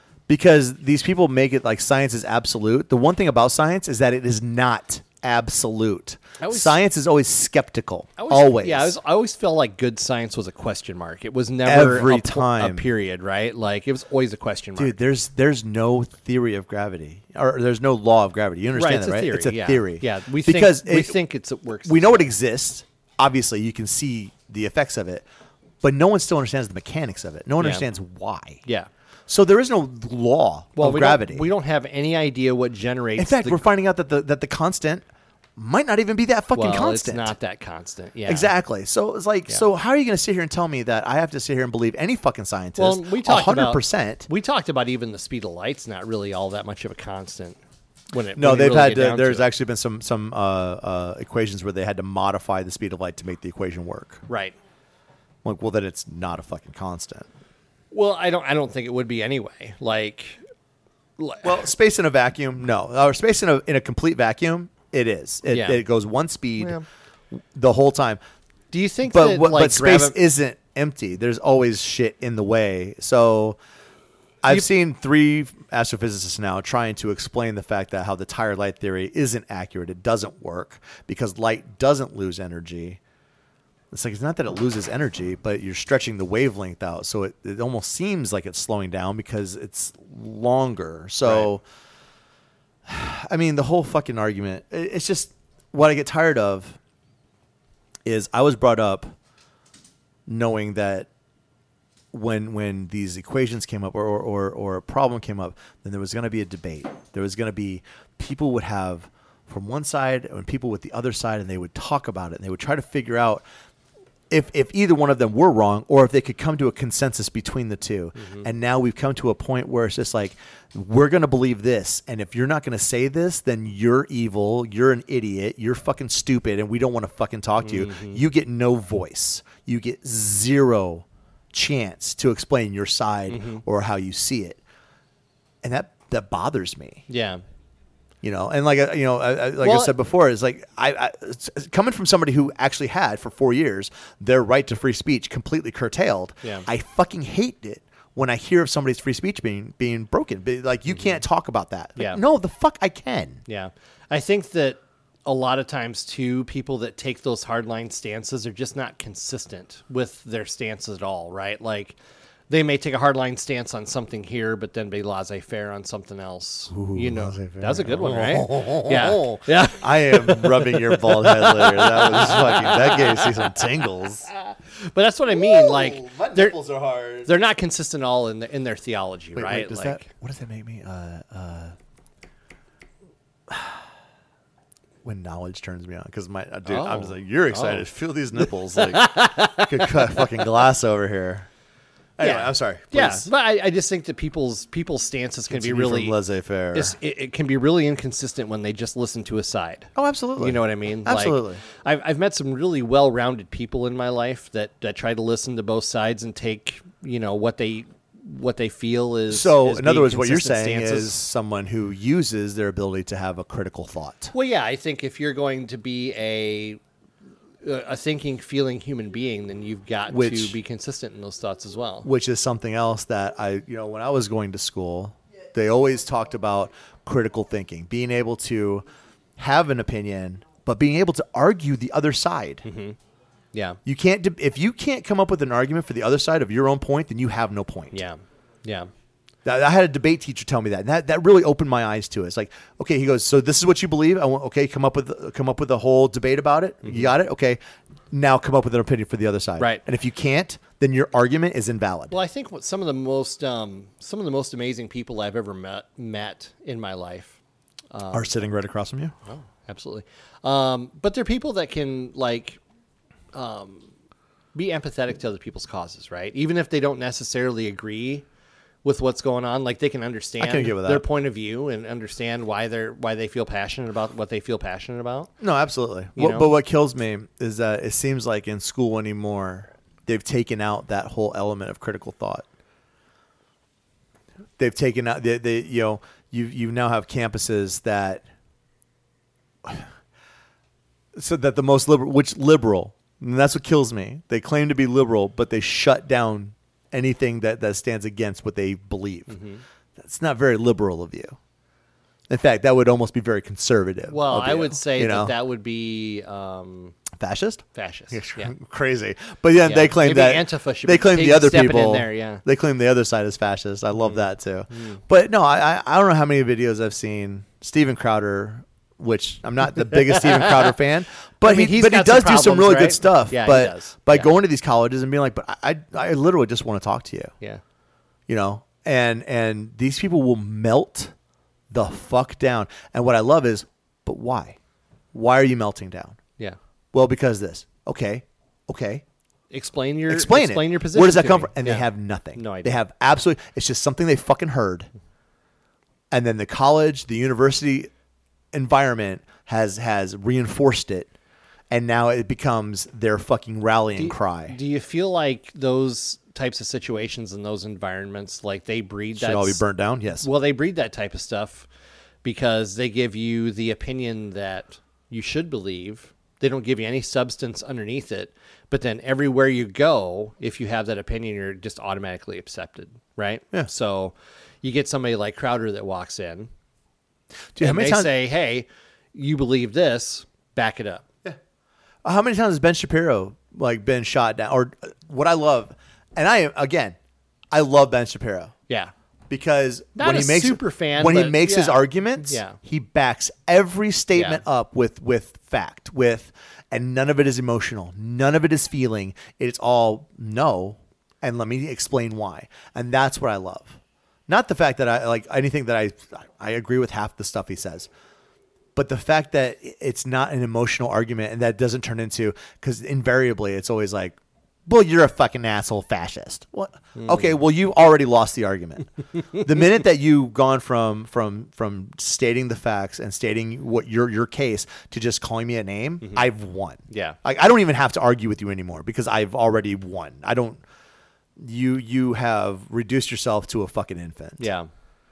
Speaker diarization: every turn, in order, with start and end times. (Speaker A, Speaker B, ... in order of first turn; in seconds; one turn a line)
Speaker A: 0.3-9.0
Speaker B: 6.4-6.8
Speaker B: 8.2-15.0
Speaker A: 11.6-12.9
Speaker A: 14.8-21.2
Speaker B: 18.7-22.3
Speaker A: 21.9-25.3
Speaker A: 25.8-28.6
Speaker B: 27.6-27.9
Speaker A: 29.3-31.5
Speaker B: 30.8-33.6
Speaker A: 33.2-37.4
Speaker B: 36.5-38.5
Speaker A: 38.3-44.3
Speaker B: 42.8-47.6
Speaker B: 48.1-49.5
Speaker A: 48.4-54.2
Speaker B: 54.3-54.5
Speaker A: 55.4-57.3
Speaker B: 57.9-60.4
Speaker B: 61.2-61.6
Speaker A: 61.4-66.8
Speaker B: 65.5-65.8
Speaker B: 66.6-66.8
Speaker A: 67.3-68.2
Speaker B: 68.7-70.2
Speaker A: 69.0-73.6
Speaker A: 74.4-83.0
Speaker A: 83.9-91.6
Speaker B: 91.2-91.5
Speaker A: 92.9-96.8
Speaker A: 98.0-99.2
Speaker A: 100.3-101.1
Speaker A: 102.1-113.5
Speaker A: 114.3-134.6
Speaker B: 118.2-118.5
Speaker B: 127.6-128.2
Speaker B: 133.3-133.6
Speaker A: 135.6-137.0
Speaker B: 137.1-137.4
Speaker A: 138.2-153.4
Speaker B: 139.6-139.9
Speaker B: 150.9-151.2
Speaker B: 153.5-162.0
Speaker B: 162.5-173.7
Speaker A: 166.7-174.3
Speaker B: 174.3-176.6
Speaker A: 175.3-177.3
Speaker B: 177.2-180.1
Speaker A: 179.3-181.8
Speaker A: 183.5-183.8
Speaker A: 185.0-191.5
Speaker B: 186.7-187.8
Speaker B: 188.4-190.3
Speaker A: 192.2-193.3
Speaker B: 192.2-196.2
Speaker A: 195.5-197.0
Speaker B: 196.7-211.2
Speaker A: 200.0-201.6
Speaker A: 209.3-214.3
Speaker B: 214.3-216.8
Speaker B: 217.6-222.1
Speaker A: 220.1-220.6
Speaker A: 222.0-232.6
Speaker B: 232.7-233.0
Speaker B: 233.5-233.8
Speaker A: 233.8-238.0
Speaker B: 237.9-238.9
Speaker A: 239.4-247.6
Speaker B: 246.8-247.2
Speaker A: 248.1-252.2
Speaker B: 252.1-257.4
Speaker B: 257.9-258.4
Speaker A: 258.1-259.1
Speaker B: 259.3-262.6
Speaker B: 263.3-263.9
Speaker B: 264.5-268.2
Speaker B: 268.8-275.3
Speaker A: 270.4-271.1
Speaker A: 275.4-282.5
Speaker B: 276.1-276.5
Speaker A: 284.6-288.2
Speaker A: 289.6-289.9
Speaker A: 291.1-299.4
Speaker B: 299.3-299.6
Speaker A: 300.0-301.4
Speaker A: 302.3-305.4
Speaker B: 304.1-307.0
Speaker A: 307.1-327.3
Speaker B: 307.8-308.5
Speaker B: 309.6-312.4
Speaker B: 314.0-315.0
Speaker B: 321.4-324.3
Speaker A: 328.3-331.1
Speaker A: 331.7-334.6
Speaker A: 335.1-336.2
Speaker A: 336.9-339.0
Speaker B: 339.5-342.8
Speaker A: 340.1-344.9
Speaker A: 346.1-347.9
Speaker A: 348.5-351.1
Speaker A: 351.7-354.6
Speaker B: 354.0-359.6
Speaker A: 359.1-360.3
Speaker B: 360.2-361.7
Speaker B: 362.2-376.5
Speaker A: 377.5-378.1
Speaker B: 377.6-381.1
Speaker A: 382.0-387.0
Speaker A: 387.5-388.6
Speaker A: 389.3-407.9
Speaker B: 390.0-392.6
Speaker B: 394.1-394.4
Speaker A: 408.8-430.6
Speaker B: 416.9-417.4
Speaker B: 426.9-427.2
Speaker A: 431.4-434.5
Speaker B: 434.4-434.7